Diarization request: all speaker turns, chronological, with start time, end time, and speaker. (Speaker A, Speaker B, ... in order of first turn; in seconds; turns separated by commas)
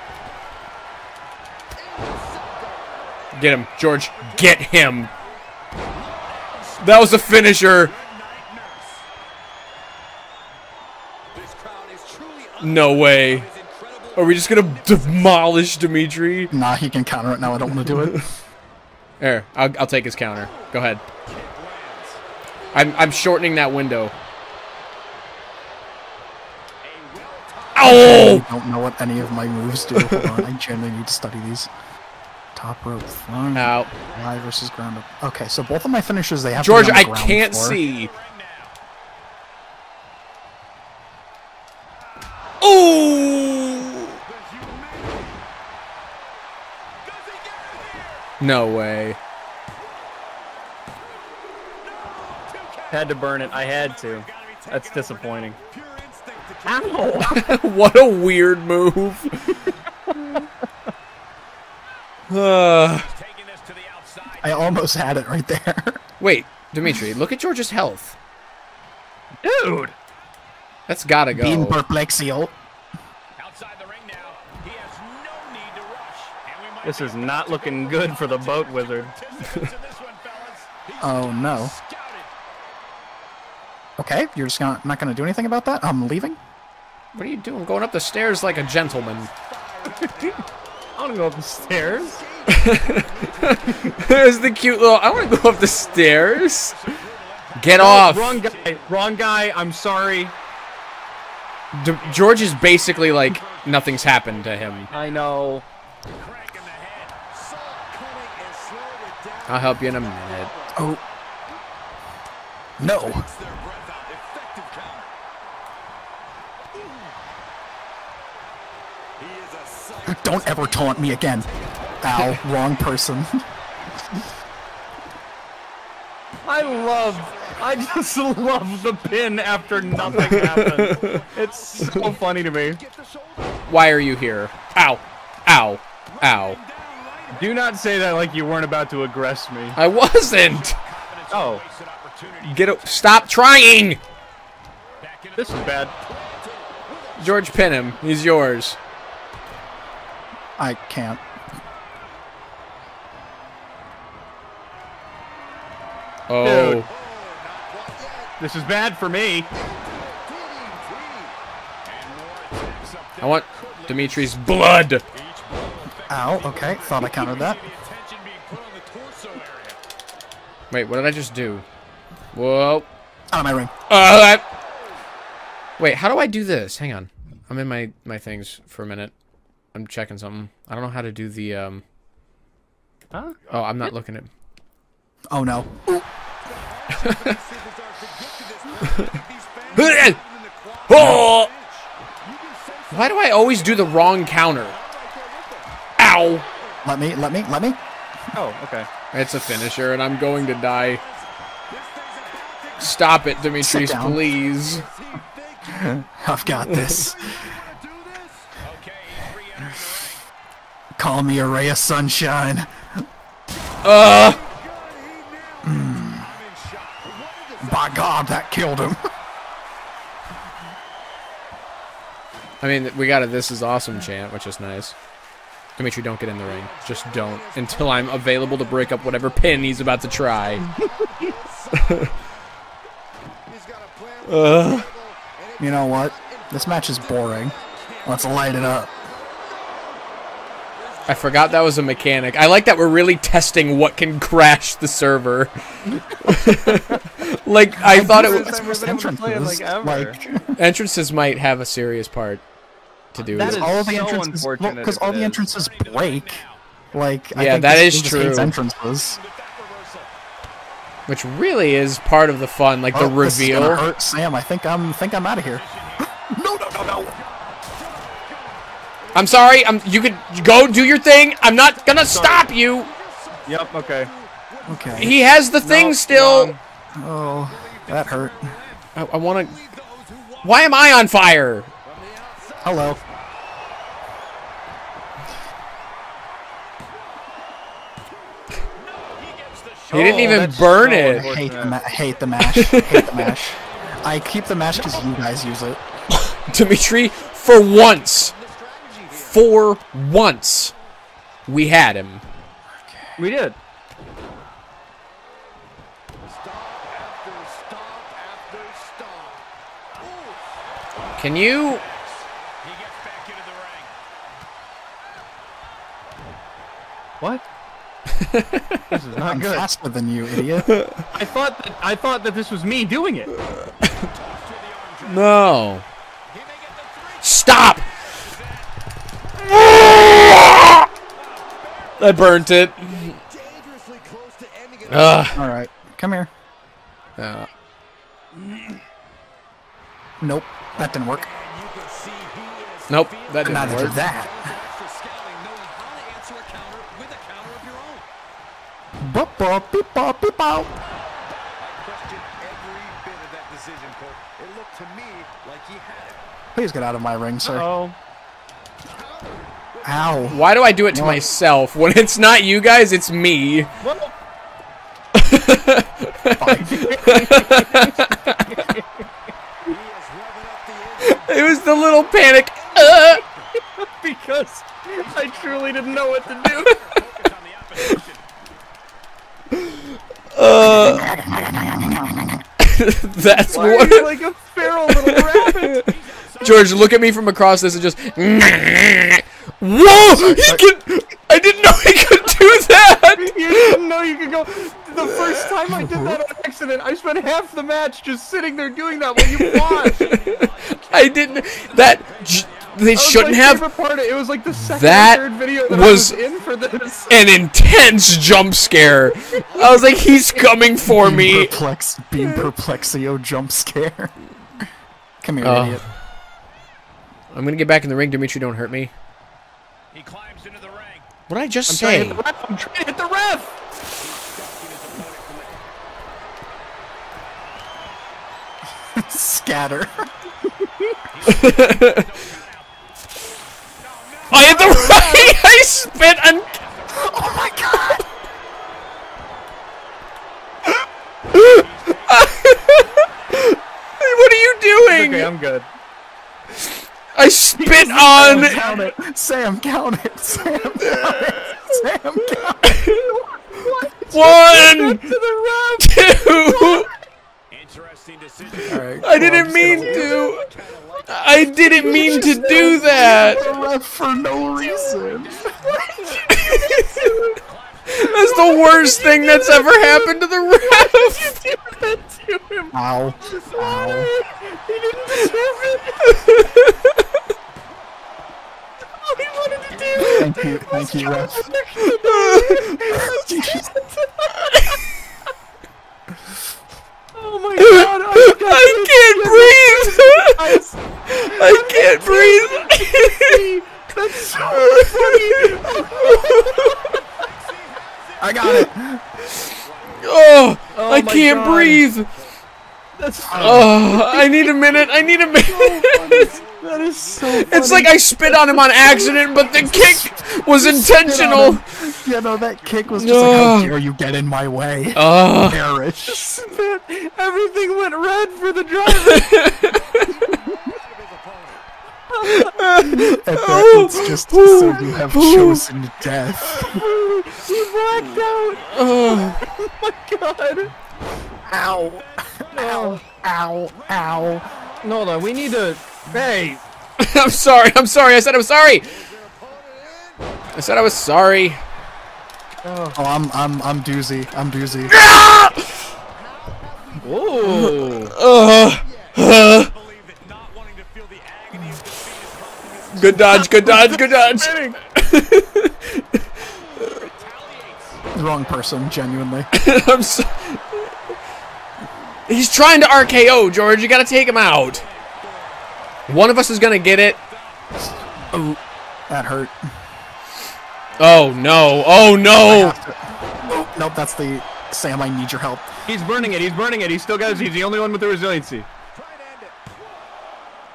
Speaker A: 2.3-2.6, Speaker B: 3.3-5.1, Speaker A: 5.0-5.4, Speaker A: 6.1-7.3, Speaker B: 6.8-7.9, Speaker A: 7.8-9.0, Speaker A: 11.4-15.4, Speaker B: 12.6-13.5, Speaker B: 14.2-16.5, Speaker C: 16.5-18.2, Speaker B: 17.7-18.3, Speaker B: 19.2-21.0, Speaker A: 21.2-22.2, Speaker B: 22.7-24.1, Speaker A: 26.8-28.0, Speaker B: 27.8-28.5, Speaker C: 27.8-31.7, Speaker B: 30.0-30.5, Speaker C: 32.5-37.8, Speaker B: 33.5-33.9, Speaker B: 36.6-38.1, Speaker A: 37.8-38.6, Speaker B: 42.6-44.1, Speaker A: 44.3-45.2, Speaker A: 47.2-48.2, Speaker B: 48.4-49.2, Speaker A: 52.2-57.3, Speaker D: 52.9-55.6, Speaker D: 56.6-57.5, Speaker B: 57.3-59.7, Speaker B: 62.3-63.1, Speaker A: 63.0-64.6, Speaker C: 64.4-66.0, Speaker B: 66.2-68.2, Speaker D: 69.4-69.9, Speaker B: 70.9-71.8, Speaker C: 71.3-72.5, Speaker A: 73.4-82.3, Speaker D: 76.8-79.1, Speaker C: 81.0-81.7, Speaker C: 84.0-86.4, Speaker B: 87.1-89.3, Speaker A: 88.8-90.4, Speaker D: 91.0-92.2, Speaker A: 92.2-94.2, Speaker B: 92.5-96.9, Speaker A: 95.6-98.9, Speaker B: 97.5-98.4, Speaker D: 97.7-100.3, Speaker B: 101.7-104.9, Speaker A: 102.2-105.0, Speaker D: 104.9-105.6, Speaker A: 106.2-110.7, Speaker B: 109.5-110.5, Speaker C: 110.7-111.0, Speaker C: 112.8-113.3, Speaker A: 113.0-115.0, Speaker A: 119.2-121.3, Speaker C: 120.0-121.5, Speaker C: 122.0-123.4, Speaker D: 126.4-132.8, Speaker A: 126.6-128.3, Speaker A: 129.5-129.9, Speaker C: 129.9-130.4, Speaker B: 130.2-131.2, Speaker A: 130.8-133.6, Speaker B: 133.7-136.6, Speaker A: 136.2-137.6, Speaker D: 137.3-139.8, Speaker B: 139.8-140.8, Speaker A: 140.2-143.2, Speaker D: 141.3-141.6, Speaker B: 142.4-144.0, Speaker A: 145.0-147.4, Speaker D: 145.3-145.9, Speaker B: 147.2-148.8, Speaker C: 150.6-151.2, Speaker B: 156.3-156.9, Speaker D: 156.4-156.9, Speaker A: 157.0-158.3, Speaker D: 158.4-159.5, Speaker A: 159.8-161.3, Speaker A: 161.9-164.3, Speaker B: 163.2-165.0, Speaker A: 165.1-169.8, Speaker C: 166.1-167.6, Speaker B: 170.7-171.6, Speaker B: 172.3-172.9, Speaker C: 173.3-173.7, Speaker B: 173.9-174.4, Speaker B: 175.8-179.1, Speaker B: 179.7-181.8, Speaker D: 183.1-183.9, Speaker B: 183.5-184.3, Speaker C: 185.3-186.0, Speaker A: 186.7-195.7, Speaker B: 189.7-190.2, Speaker B: 190.9-191.5, Speaker C: 190.9-191.2, Speaker B: 192.9-194.8, Speaker B: 196.0-196.4, Speaker C: 196.8-197.8, Speaker D: 198.3-198.9, Speaker B: 199.1-201.0, Speaker A: 200.2-201.1, Speaker A: 201.8-203.1, Speaker B: 202.8-204.8, Speaker C: 203.6-204.2, Speaker A: 204.2-205.8, Speaker C: 205.7-207.4, Speaker A: 207.2-210.2, Speaker C: 211.0-212.7, Speaker B: 213.8-214.4, Speaker A: 214.0-217.8, Speaker C: 215.6-216.3, Speaker C: 217.6-219.0, Speaker B: 222.6-224.9, Speaker B: 225.8-230.6, Speaker A: 226.6-232.1, Speaker A: 233.5-235.6, Speaker B: 234.2-234.9, Speaker C: 235.6-238.9, Speaker A: 237.6-238.0, Speaker A: 238.8-239.4, Speaker B: 241.1-248.7, Speaker D: 246.7-247.0, Speaker C: 247.8-250.5, Speaker D: 247.9-250.2, Speaker B: 250.6-252.4, Speaker B: 253.1-253.8, Speaker C: 253.2-259.2, Speaker D: 253.3-255.4, Speaker A: 255.5-256.6, Speaker B: 257.4-258.6, Speaker A: 258.9-260.1, Speaker B: 261.1-263.8, Speaker C: 262.9-265.6, Speaker A: 265.5-266.2, Speaker C: 266.3-267.1, Speaker A: 267.2-269.4, Speaker B: 269.1-272.9, Speaker A: 271.4-275.1, Speaker D: 272.1-272.5, Speaker D: 273.4-274.1, Speaker C: 274.6-275.1, Speaker B: 275.0-276.5, Speaker D: 275.6-276.6, Speaker C: 277.0-278.5, Speaker A: 277.3-278.9, Speaker B: 278.9-279.6, Speaker A: 279.5-280.4, Speaker B: 280.4-281.7, Speaker A: 281.9-282.9, Speaker C: 282.6-283.0, Speaker A: 288.8-290.6, Speaker D: 289.9-291.8, Speaker B: 289.9-291.4, Speaker C: 291.1-295.8, Speaker B: 292.4-293.3, Speaker B: 296.1-298.3, Speaker A: 298.2-299.3, Speaker B: 299.1-300.7, Speaker B: 301.5-302.2, Speaker C: 302.8-303.1, Speaker D: 303.2-303.6, Speaker A: 306.4-309.4, Speaker B: 311.2-311.8, Speaker A: 312.6-313.9, Speaker B: 318.3-318.8, Speaker D: 318.9-319.7, Speaker C: 319.3-320.7, Speaker D: 321.1-323.3, Speaker A: 324.1-325.4, Speaker B: 325.0-325.8, Speaker A: 326.4-328.5, Speaker B: 327.2-327.9, Speaker B: 329.4-330.9, Speaker A: 331.5-335.2, Speaker B: 332.0-333.2, Speaker B: 334.9-335.4, Speaker C: 335.3-336.3, Speaker B: 337.2-337.5, Speaker C: 340.2-341.3, Speaker A: 341.2-348.0, Speaker B: 342.9-344.0, Speaker C: 343.4-344.4, Speaker C: 349.0-350.8, Speaker A: 351.6-356.2, Speaker C: 356.5-357.7, Speaker D: 357.4-357.9, Speaker A: 359.0-360.5, Speaker C: 359.8-361.3, Speaker B: 360.3-363.7, Speaker D: 363.8-364.1, Speaker B: 365.1-368.4, Speaker C: 366.4-366.9, Speaker D: 366.6-368.9, Speaker A: 369.7-371.2, Speaker B: 371.0-373.2, Speaker A: 372.6-373.4, Speaker D: 373.8-376.8, Speaker A: 375.0-378.2, Speaker B: 380.3-381.2, Speaker C: 380.6-382.4, Speaker B: 382.6-384.2, Speaker D: 383.4-385.8, Speaker B: 385.0-393.8, Speaker A: 385.9-387.0, Speaker C: 389.9-390.6, Speaker D: 393.1-400.1, Speaker B: 395.0-395.4, Speaker C: 395.8-396.2, Speaker B: 399.4-403.7, Speaker A: 400.1-403.0, Speaker D: 402.9-407.1, Speaker B: 404.6-406.2, Speaker A: 406.6-407.1, Speaker B: 407.1-411.6, Speaker D: 409.0-410.2, Speaker C: 410.9-414.1, Speaker C: 415.2-415.8, Speaker B: 415.4-415.9, Speaker B: 417.3-418.9, Speaker A: 419.9-421.1, Speaker B: 421.3-422.2, Speaker D: 421.7-423.5, Speaker A: 424.0-425.5, Speaker C: 428.9-430.1, Speaker D: 430.6-430.9, Speaker A: 431.1-432.6, Speaker B: 431.4-431.9, Speaker A: 433.8-435.8, Speaker B: 434.3-436.6, Speaker D: 434.5-435.3, Speaker A: 436.5-437.8, Speaker C: 436.9-438.0, Speaker B: 441.3-445.3, Speaker A: 441.4-443.1, Speaker D: 444.9-445.7, Speaker B: 447.1-448.6, Speaker D: 447.6-448.9, Speaker C: 448.1-452.8, Speaker B: 450.8-451.8, Speaker B: 452.4-453.0, Speaker D: 452.8-457.0, Speaker B: 454.0-455.2, Speaker B: 455.8-456.9, Speaker A: 457.5-458.8, Speaker C: 458.6-460.2, Speaker B: 458.7-460.4, Speaker D: 459.8-460.3, Speaker A: 460.0-461.8, Speaker B: 461.1-463.4, Speaker D: 461.7-463.7, Speaker C: 461.8-465.6, Speaker D: 464.6-465.1, Speaker A: 465.0-465.6, Speaker D: 465.6-467.4, Speaker B: 466.1-467.2, Speaker A: 467.5-468.5, Speaker B: 467.9-471.4, Speaker D: 468.0-472.7, Speaker C: 472.7-474.1, Speaker A: 473.3-473.8, Speaker D: 473.4-476.3, Speaker A: 475.2-476.6, Speaker D: 479.0-484.8, Speaker A: 479.7-480.8, Speaker C: 480.0-481.5, Speaker B: 481.8-482.9, Speaker C: 482.9-483.7, Speaker D: 487.1-496.7, Speaker B: 487.6-493.4, Speaker B: 494.5-496.9, Speaker A: 496.1-498.2, Speaker C: 498.2-499.0, Speaker A: 499.4-500.0, Speaker B: 499.9-502.1, Speaker D: 500.7-501.8, Speaker D: 503.0-504.5, Speaker C: 503.3-503.8, Speaker B: 503.3-506.2, Speaker A: 504.5-505.3, Speaker D: 505.4-509.2, Speaker A: 506.2-507.7, Speaker B: 507.3-511.6, Speaker A: 508.9-510.8, Speaker C: 510.6-516.4, Speaker A: 511.3-513.1, Speaker B: 513.0-513.7, Speaker B: 514.9-515.6, Speaker D: 516.1-519.3, Speaker B: 519.0-519.8, Speaker A: 519.6-521.6, Speaker D: 522.1-522.6, Speaker B: 522.2-525.6, Speaker C: 523.2-526.9, Speaker A: 526.5-527.2, Speaker D: 526.6-530.7, Speaker A: 528.1-529.4, Speaker B: 528.6-529.4, Speaker C: 531.5-534.5, Speaker A: 531.8-532.9, Speaker D: 532.5-533.0, Speaker A: 533.7-535.7, Speaker D: 534.8-536.6, Speaker B: 537.0-538.9, Speaker A: 539.0-540.2, Speaker B: 540.5-541.6, Speaker D: 542.6-543.0, Speaker C: 542.9-545.0, Speaker B: 544.9-545.7, Speaker A: 546.3-547.7, Speaker D: 547.0-548.1, Speaker B: 547.4-549.7, Speaker A: 549.0-553.4, Speaker B: 552.9-556.1, Speaker D: 553.2-554.8, Speaker A: 556.8-557.9, Speaker C: 558.1-559.5, Speaker B: 559.5-560.9, Speaker B: 562.3-564.8, Speaker B: 566.1-567.2, Speaker C: 568.3-569.5, Speaker B: 571.0-572.8, Speaker C: 572.3-575.7, Speaker D: 575.9-578.7, Speaker A: 579.0-579.5